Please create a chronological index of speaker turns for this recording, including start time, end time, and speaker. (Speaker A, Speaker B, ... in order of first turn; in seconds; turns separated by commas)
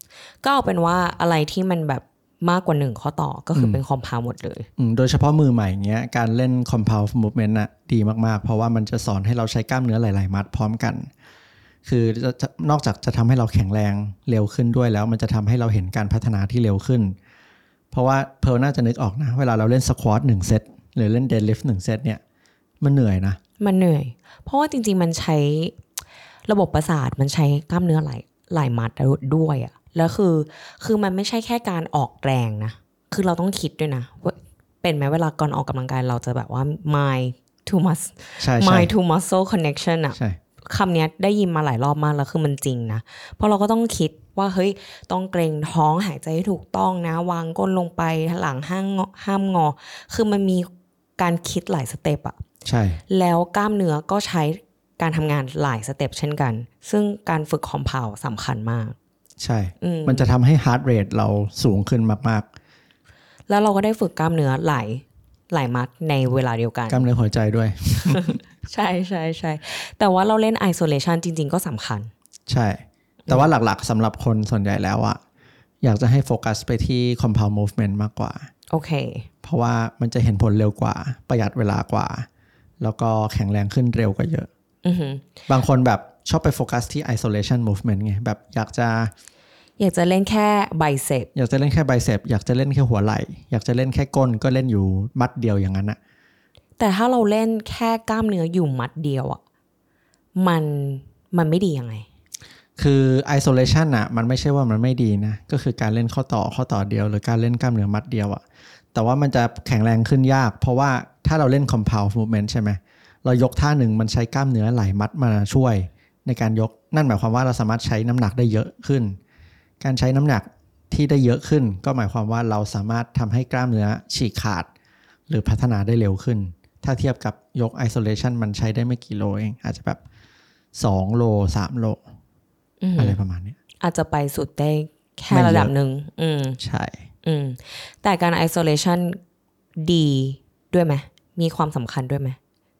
Speaker A: 0.4-4.7, Speaker B: 3.5-3.8, Speaker B: 4.8-11.1, Speaker B: 11.8-17.1, Speaker B: 17.9-22.2, Speaker B: 22.8-23.4, Speaker A: 23.6-25.8, Speaker A: 26.5-52.4, Speaker B: 38.4-38.9, Speaker B: 52.6-53.0, Speaker A: 53.1-59.0, Speaker B: 59.4-62.5, Speaker A: 59.8-60.2, Speaker A: 63.5-67.1, Speaker B: 66.9-68.4, Speaker A: 68.0-72.1, Speaker B: 72.5-75.2, Speaker B: 75.8-78.5, Speaker A: 78.7-79.3, Speaker B: 79.4-82.3, Speaker B: 82.8-84.5, Speaker A: 84.8-85.3, Speaker B: 85.5-89.1, Speaker A: 89.8-91.3, Speaker B: 91.3-96.0, Speaker A: 96.8-99.4, Speaker A: 100.3-102.0, Speaker B: 102.8-108.4, Speaker B: 108.9-119.2, Speaker B: 119.8-124.7, Speaker B: 125.3-130.0, Speaker B: 130.7-132.0, Speaker A: 132.8-133.2, Speaker B: 133.0-133.6, Speaker A: 133.8-136.6, Speaker B: 135.3-135.7, Speaker B: 136.6-137.0, Speaker A: 137.2-139.2, Speaker A: 139.8-142.4